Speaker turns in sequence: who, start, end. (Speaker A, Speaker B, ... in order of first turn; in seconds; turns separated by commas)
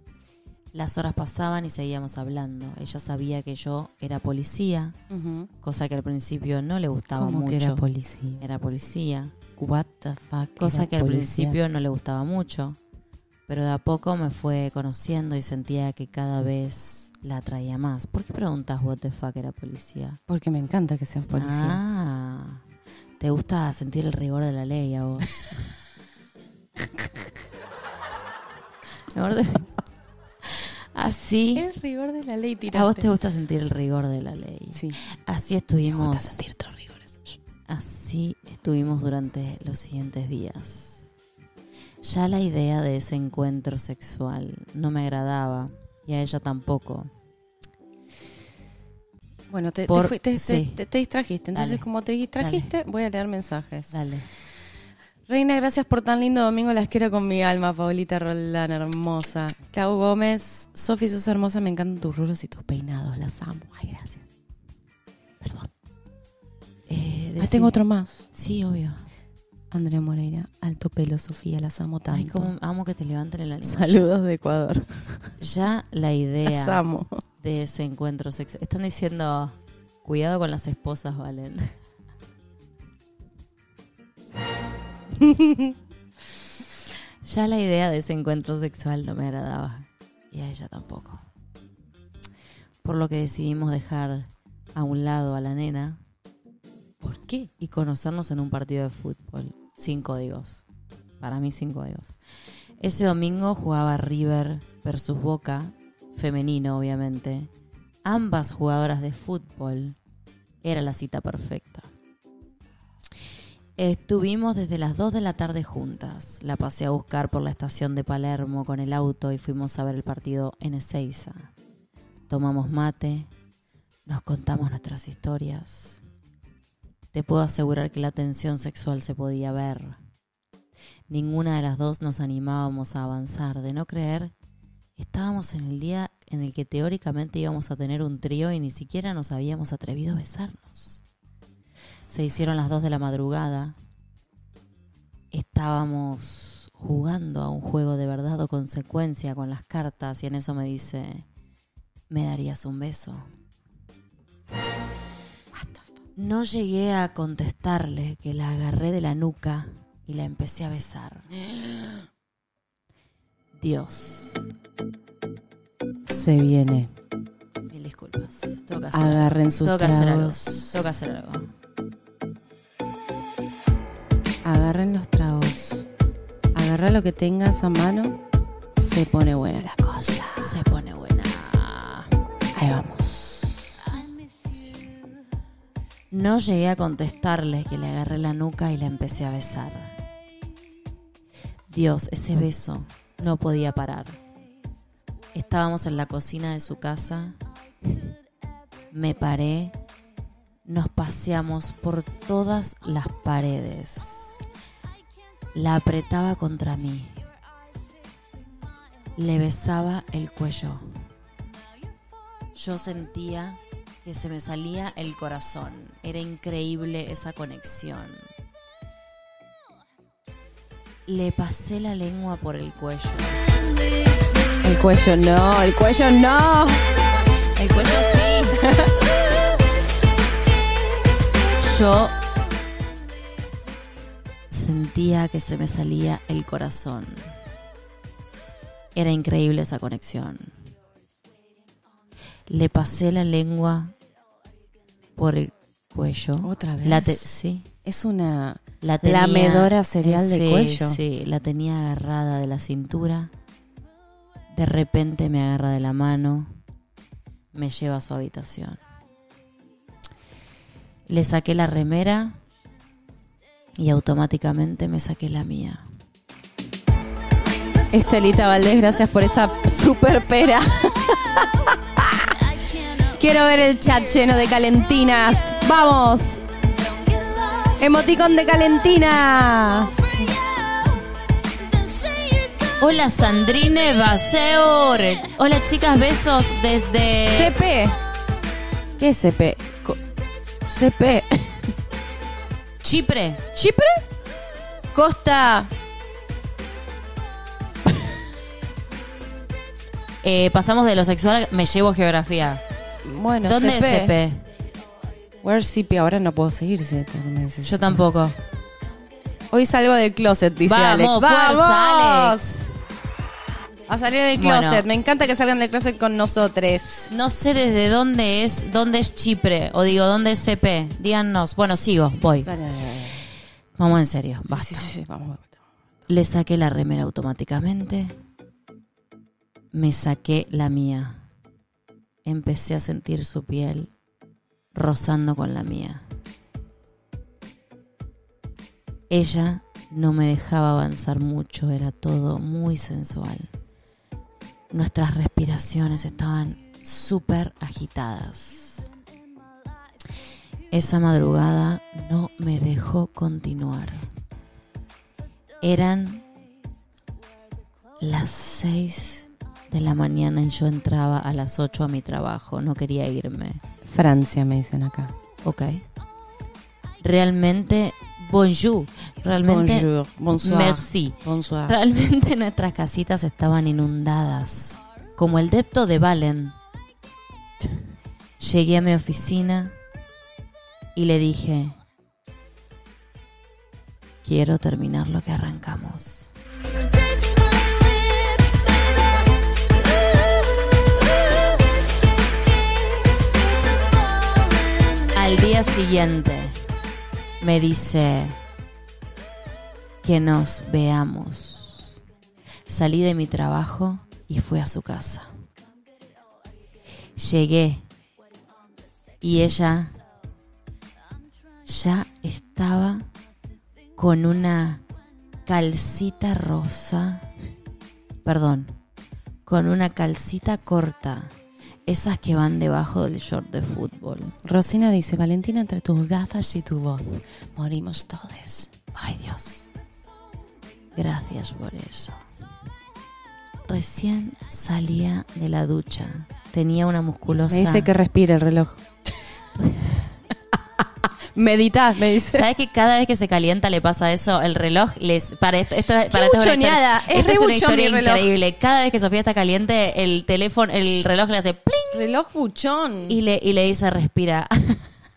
Speaker A: 0.7-5.0, Speaker B: 5.1-5.5, Speaker A: 5.6-7.8, Speaker B: 7.1-8.4, Speaker A: 8.4-9.4, Speaker B: 9.6-11.6, Speaker A: 10.6-12.8, Speaker A: 13.5-20.2, Speaker B: 20.3-21.8, Speaker A: 21.3-22.6, Speaker A: 23.2-25.6, Speaker A: 29.1-29.7, Speaker A: 30.5-31.6, Speaker B: 31.6-33.1, Speaker A: 32.7-36.5, Speaker B: 34.7-35.0, Speaker B: 35.9-37.4, Speaker A: 37.7-41.1, Speaker A: 42.0-47.1, Speaker B: 49.5-53.9, Speaker A: 49.9-50.8, Speaker A: 51.5-51.9, Speaker A: 52.4-52.7, Speaker A: 53.9-54.3, Speaker B: 55.3-64.3, Speaker B: 65.4-65.7, Speaker A: 66.9-67.8, Speaker B: 67.4-68.2, Speaker A: 68.3-69.0, Speaker B: 69.7-72.5, Speaker A: 72.1-74.0, Speaker B: 73.6-75.1, Speaker A: 75.4-76.8, Speaker B: 76.4-77.2, Speaker A: 77.4-81.7, Speaker B: 85.2-85.7, Speaker A: 87.2-91.2, Speaker A: 92.8-96.0, Speaker B: 97.0-97.5, Speaker A: 97.6-100.6, Speaker A: 101.2-102.1, Speaker A: 102.8-107.5, Speaker A: 108.0-110.0, Speaker A: 110.6-111.9, Speaker A: 113.8-121.5, Speaker A: 122.3-123.3, Speaker A: 124.0-126.0, Speaker A: 127.1-130.0, Speaker A: 131.1-134.3, Speaker A: 135.0-141.0, Speaker A: 142.1-143.8, Speaker A: 145.3-151.2, Speaker A: 152.1-153.2, Speaker B: 155.5-155.9, Speaker A: 156.2-161.3, Speaker B: 161.4-162.0, Speaker A: 163.6-164.5, Speaker B: 166.1-166.9, Speaker A: 167.7-171.5, Speaker B: 168.9-170.8, Speaker B: 174.4-175.9, Speaker B: 176.5-178.2, Speaker B: 178.8-180.5, Speaker A: 180.4-182.1, Speaker B: 182.5-183.8, Speaker A: 186.1-189.9, Speaker A: 191.7-194.2, Speaker A: 195.3-197.4, Speaker A: 198.9-199.8, Speaker A: 200.7-204.4, Speaker A: 205.5-207.2, Speaker A: 209.2-211.0, Speaker A: 212.5-218.2, Speaker A: 221.1-223.4, Speaker B: 224.6-226.8, Speaker A: 227.6-228.6, Speaker B: 228.6-228.9, Speaker A: 231.6-232.2, Speaker A: 234.5-237.2, Speaker A: 238.9-240.6, Speaker A: 242.5-243.9, Speaker A: 245.2-247.7, Speaker B: 246.4-247.3, Speaker B: 247.8-251.0, Speaker A: 248.8-253.3, Speaker A: 254.5-256.5, Speaker A: 257.5-258.8, Speaker A: 261.1-262.4, Speaker A: 263.8-265.8, Speaker B: 267.9-272.4, Speaker B: 273.0-276.4, Speaker B: 277.7-280.3, Speaker A: 282.8-287.5, Speaker B: 287.3-288.0, Speaker B: 289.0-290.0, Speaker B: 290.6-291.8, Speaker A: 292.8-293.4, Speaker B: 293.5-294.0, Speaker B: 294.9-295.7, Speaker A: 300.2-302.6, Speaker B: 303.0-304.1, Speaker A: 303.4-304.4, Speaker B: 305.4-308.0, Speaker A: 307.6-308.4, Speaker B: 309.5-312.7, Speaker A: 310.6-312.4, Speaker B: 313.9-317.1, Speaker A: 314.3-314.8, Speaker A: 317.1-322.5, Speaker B: 322.4-323.2, Speaker A: 323.8-324.9, Speaker B: 324.5-325.6, Speaker A: 326.1-328.1, Speaker A: 329.7-331.2, Speaker A: 332.2-333.9, Speaker A: 334.7-336.0, Speaker A: 339.1-343.5, Speaker A: 344.7-348.9, Speaker A: 350.7-354.1, Speaker A: 355.6-356.2, Speaker A: 358.0-363.6, Speaker B: 363.8-365.1, Speaker A: 365.4-365.8, Speaker A: 367.0-369.9, Speaker B: 369.4-371.8, Speaker A: 370.4-376.6, Speaker A: 378.4-379.8, Speaker A: 380.9-381.8, Speaker A: 384.2-386.3, Speaker A: 395.1-396.6, Speaker A: 397.4-398.4, Speaker A: 400.0-401.9, Speaker A: 402.7-405.3, Speaker A: 407.1-407.8, Speaker A: 409.2-410.0, Speaker A: 411.6-413.1, Speaker A: 414.0-414.8, Speaker A: 415.4-417.2, Speaker A: 418.2-418.8, Speaker A: 419.4-421.3, Speaker A: 421.9-424.4, Speaker B: 424.4-428.7, Speaker A: 428.9-429.7, Speaker A: 430.9-432.2, Speaker A: 433.7-437.9, Speaker B: 437.5-438.8, Speaker B: 441.3-442.4, Speaker A: 442.3-452.1, Speaker B: 446.1-448.3, Speaker B: 451.9-453.2, Speaker A: 453.1-454.8